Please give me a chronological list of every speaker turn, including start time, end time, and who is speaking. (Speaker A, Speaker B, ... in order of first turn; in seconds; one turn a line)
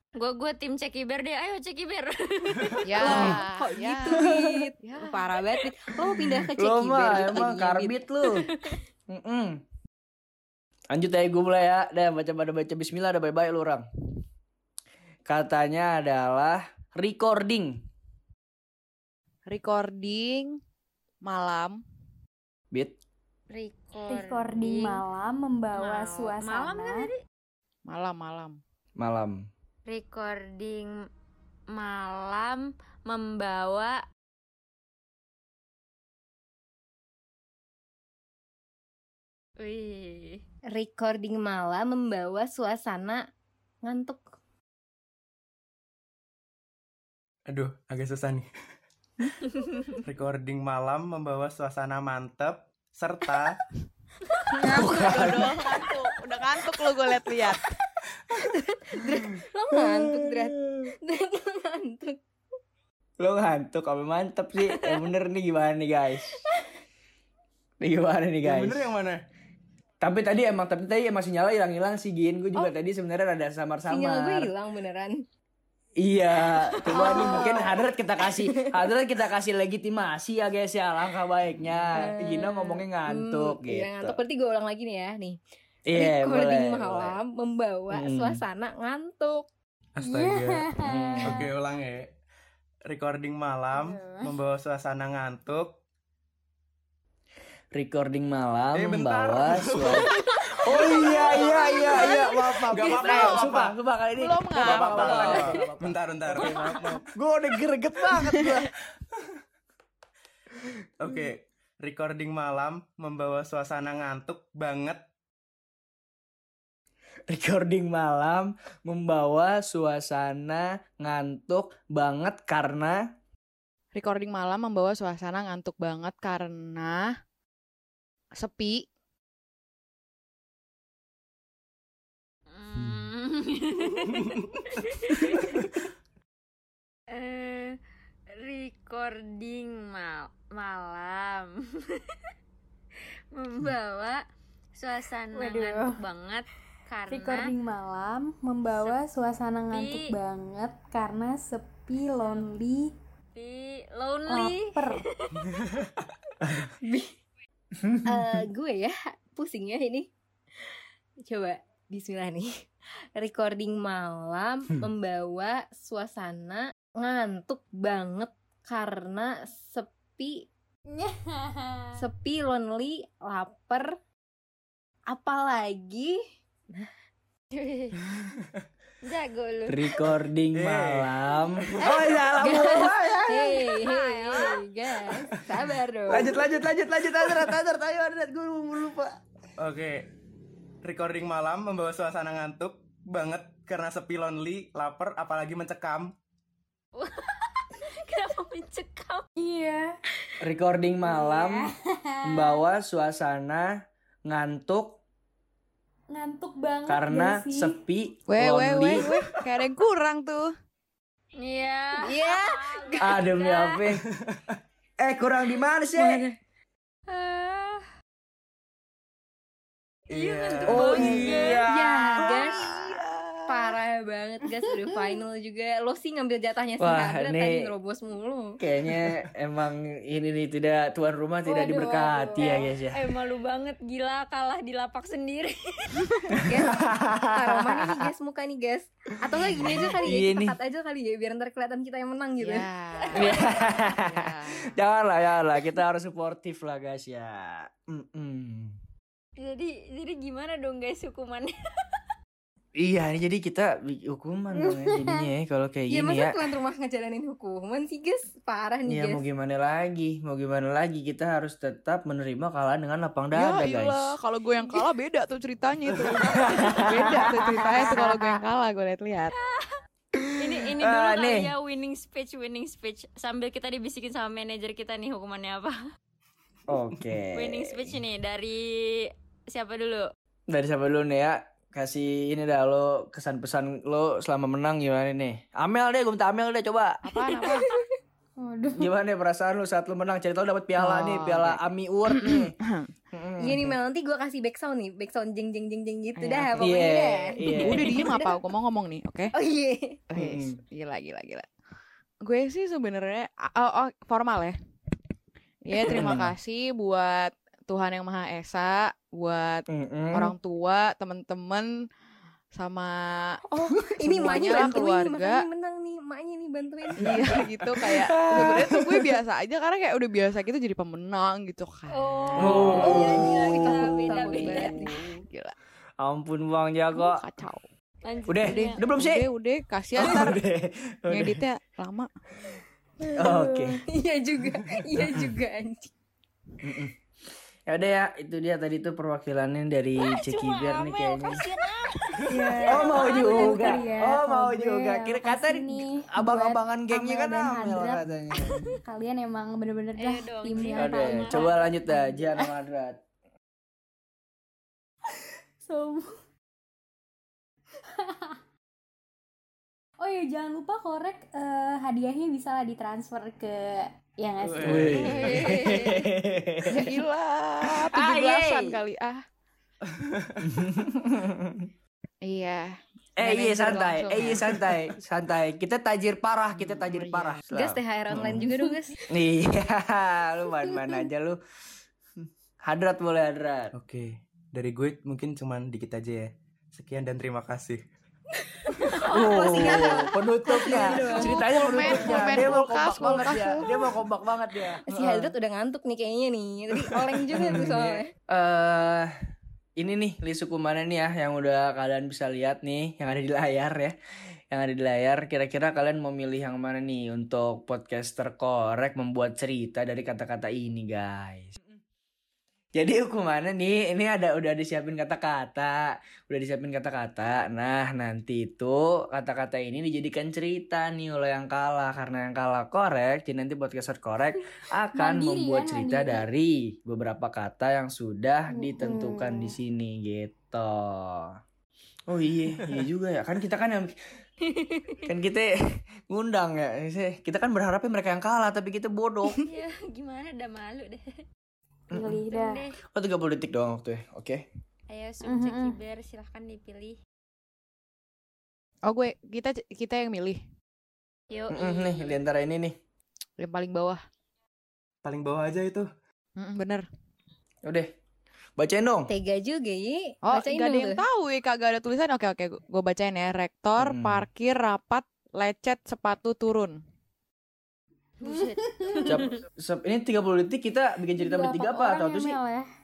Speaker A: 0.1-3.4
Speaker B: 2.8-5.4
Speaker C: 3.0-8.7
Speaker D: 3.0-3.4
Speaker D: 4.1-4.5
Speaker D: 6.5-8.5
Speaker D: 9.1-9.6
Speaker D: 10.9-13.9
Speaker D: 15.2-17.9
Speaker B: 19.5-20.6
Speaker B: 21.2-21.8
Speaker D: 22.7-23.0
Speaker A: 23.5-25.0
Speaker E: 24.1-27.1
Speaker A: 25.7-27.2
Speaker B: 27.9-28.6
Speaker D: 29.0-29.5
Speaker A: 29.9-31.0
Speaker A: 31.7-34.0
Speaker A: 39.6-40.4
Speaker C: 40.7-43.2
Speaker C: 43.8-44.3
Speaker F: 47.5-48.5
Speaker F: 50.0-53.6
Speaker B: 54.5-57.7
Speaker C: 54.6-55.0
Speaker D: 54.7-55.6
Speaker C: 58.4-62.2
Speaker D: 59.7-60.9
Speaker D: 63.2-66.4
Speaker D: 67.8-68.8
Speaker F: 68.4-69.2
Speaker D: 70.0-74.5
Speaker C: 73.9-75.2
Speaker D: 76.0-84.2
Speaker C: 76.9-78.9
Speaker A: 76.9-77.2
Speaker C: 82.0-85.4
Speaker D: 85.9-87.2
Speaker C: 85.9-89.5
Speaker D: 87.9-88.4
Speaker F: 90.0-90.7
Speaker E: 90.0-91.5
Speaker D: 90.8-91.5
Speaker F: 91.2-92.1
Speaker F: 92.9-95.8
Speaker E: 93.7-94.3
Speaker D: 97.7-100.1
Speaker F: 98.7-103.7
Speaker D: 100.6-108.7
Speaker C: 100.8-102.2
Speaker B: 104.2-105.5
Speaker F: 104.6-107.0
Speaker B: 108.1-108.5
Speaker F: 111.0-115.0
Speaker D: 117.3-123.1
Speaker B: 123.9-127.1
Speaker B: 128.3-128.9
Speaker A: 132.5-135.7
Speaker A: 137.1-137.8
Speaker A: 138.3-142.2
Speaker A: 143.3-144.2
Speaker A: 144.7-147.5
Speaker E: 145.3-146.0
Speaker E: 147.1-152.9
Speaker A: 148.7-149.0
Speaker A: 149.7-150.1
Speaker A: 152.2-152.5
Speaker A: 153.3-155.4
Speaker E: 154.3-155.0
Speaker F: 155.5-155.9
Speaker C: 156.8-157.2
Speaker D: 157.8-158.4
Speaker C: 158.0-160.1
Speaker C: 161.2-162.5
Speaker C: 163.2-170.5
Speaker E: 170.9-172.0
Speaker C: 172.0-174.0
Speaker C: 175.1-176.9
Speaker A: 177.5-178.0
Speaker A: 179.0-180.0
Speaker D: 179.7-183.6
Speaker F: 180.5-181.9
Speaker C: 181.8-186.4
Speaker A: 183.8-184.6
Speaker D: 186.1-189.2
Speaker F: 189.6-190.1
Speaker F: 190.8-196.1
Speaker A: 196.9-199.2
Speaker E: 199.4-199.9
Speaker D: 200.4-201.7
Speaker E: 201.0-202.6
Speaker D: 202.2-203.7
Speaker D: 204.3-205.0
Speaker E: 206.1-207.8
Speaker D: 206.9-209.1
Speaker B: 208.3-210.5
Speaker A: 211.4-213.8
Speaker C: 212.0-213.2
Speaker D: 213.0-214.0
Speaker D: 215.0-216.2
Speaker C: 215.9-216.3
Speaker A: 217.1-217.8
Speaker F: 220.1-221.1
Speaker A: 220.1-221.7
Speaker D: 220.7-223.8
Speaker C: 221.7-222.7
Speaker C: 223.5-228.6
Speaker D: 226.8-227.7
Speaker D: 228.6-233.1
Speaker E: 231.4-232.7
Speaker A: 232.4-236.1
Speaker D: 236.4-238.1
Speaker C: 236.4-242.7
Speaker D: 239.6-240.6
Speaker B: 242.4-244.8
Speaker D: 243.1-248.8
Speaker A: 249.4-252.0
Speaker D: 252.8-256.4
Speaker C: 255.9-259.2
Speaker D: 258.9-264.1
Speaker B: 263.3-269.3
Speaker D: 266.3-268.1
Speaker A: 269.4-269.8
Speaker D: 270.1-271.5
Speaker A: 270.4-275.8
Speaker D: 276.7-278.0
Speaker A: 277.3-280.1
Speaker D: 280.5-287.0
Speaker B: 287.0-287.7
Speaker C: 287.4-287.8
Speaker E: 288.4-288.9
Speaker D: 288.7-292.6
Speaker B: 290.8-292.9
Speaker D: 293.1-293.8
Speaker C: 293.4-298.3
Speaker B: 296.2-296.7
Speaker D: 296.6-298.1
Speaker B: 297.4-299.3
Speaker C: 299.3-300.0
Speaker B: 300.1-301.5
Speaker D: 300.1-300.6
Speaker B: 302.2-304.5
Speaker B: 305.6-311.8
Speaker D: 305.8-306.3
Speaker D: 309.7-310.3
Speaker B: 312.5-313.4
Speaker C: 313.5-317.4
Speaker B: 314.0-315.4
Speaker B: 317.0-325.5
Speaker D: 317.6-319.1
Speaker C: 322.3-325.0
Speaker D: 322.4-323.9
Speaker A: 322.4-324.8
Speaker D: 326.0-327.2
Speaker B: 326.9-327.7
Speaker A: 328.0-328.8
Speaker D: 328.3-329.3
Speaker B: 328.4-330.4
Speaker D: 329.9-331.4
Speaker B: 331.1-332.1
Speaker C: 333.0-335.9
Speaker D: 333.1-333.8
Speaker D: 334.9-335.3
Speaker D: 336.6-336.9
Speaker D: 337.7-341.4
Speaker A: 340.0-343.7
Speaker C: 342.3-343.3
Speaker E: 342.3-352.5
Speaker D: 342.7-348.7
Speaker A: 350.0-351.7
Speaker D: 350.7-353.0
Speaker E: 355.6-356.1
Speaker E: 357.9-358.4
Speaker E: 360.0-365.6
Speaker F: 364.4-365.4
Speaker D: 364.6-367.0
Speaker C: 364.9-366.0
Speaker B: 366.6-369.2
Speaker D: 367.7-368.8
Speaker F: 369.8-370.6
Speaker D: 370.4-371.7
Speaker B: 372.2-374.6
Speaker D: 373.2-378.5
Speaker B: 376.5-377.4
Speaker C: 377.5-378.9
Speaker D: 379.1-381.4
Speaker D: 382.6-383.7
Speaker F: 383.7-387.8
Speaker C: 388.8-392.4
Speaker D: 389.1-395.3
Speaker B: 389.5-389.9
Speaker B: 391.1-393.7
Speaker C: 394.9-398.1
Speaker D: 396.8-399.1
Speaker D: 399.8-403.9
Speaker D: 404.5-411.6
Speaker D: 412.8-431.4
Speaker E: 424.9-426.2
Speaker E: 428.5-429.6
Speaker D: 432.1-433.9
Speaker C: 434.7-435.0
Speaker D: 435.0-439.4
Speaker A: 439.4-441.1
Speaker E: 441.9-442.6
Speaker D: 441.9-442.2
Speaker A: 442.3-442.8
Speaker D: 442.9-444.4
Speaker A: 444.9-447.0
Speaker E: 445.2-445.8
Speaker B: 448.8-450.4
Speaker A: 451.3-452.2
Speaker D: 451.5-452.8
Speaker B: 453.4-454.0
Speaker F: 455.0-455.9
Speaker B: 456.4-456.9
Speaker D: 457.6-457.9
Speaker D: 458.6-459.1
Speaker C: 459.1-461.0
Speaker B: 460.2-466.8
Speaker D: 463.8-464.3
Speaker A: 468.2-469.4
Speaker E: 468.2-469.1
Speaker D: 469.0-472.4
Speaker E: 471.1-472.7